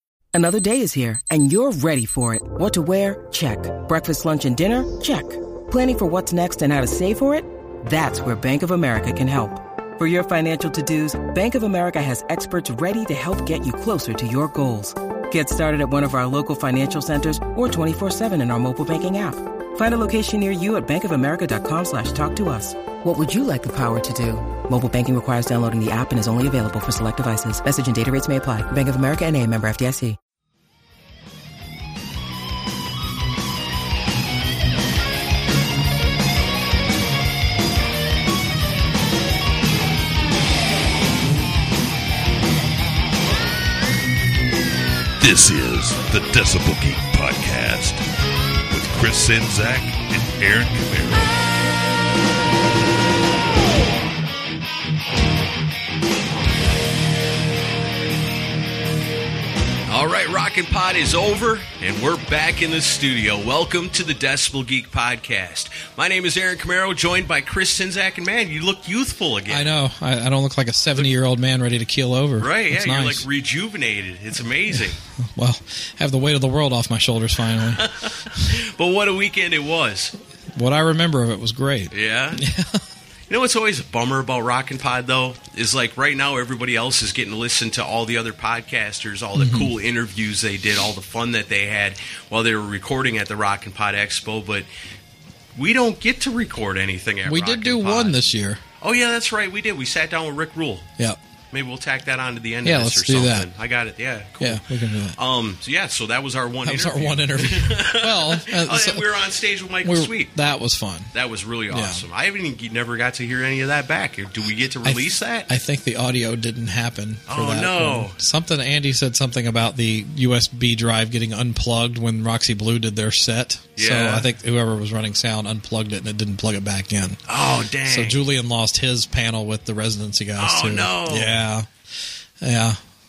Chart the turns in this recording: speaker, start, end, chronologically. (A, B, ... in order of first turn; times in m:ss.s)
0:00.3-0:30.2 A
0:45.2-0:48.0 B
0:48.7-0:51.3 B
0:59.9-1:09.7 C
1:09.5-1:13.3 D
1:12.4-1:15.0 C
1:14.7-1:17.9 D
1:17.7-1:20.1 C
1:20.5-1:22.8 D
1:21.9-1:22.4 C
1:23.3-1:34.7 C
1:29.3-1:29.7 D
1:35.6-1:38.2 C
1:37.2-1:38.6 D
1:38.8-1:40.9 C
1:41.5-1:50.4 C
1:42.6-1:43.5 D
1:44.4-1:45.2 D
1:46.6-1:49.1 D
1:49.8-1:51.1 D
1:51.1-1:55.5 C
1:51.7-1:52.0 D
1:54.8-2:07.2 D
1:57.3-1:58.2 C
2:03.8-2:04.3 C
2:07.3-2:08.2 C
2:07.8-2:11.7 D
2:10.4-2:11.4 C
2:12.4-2:12.8 D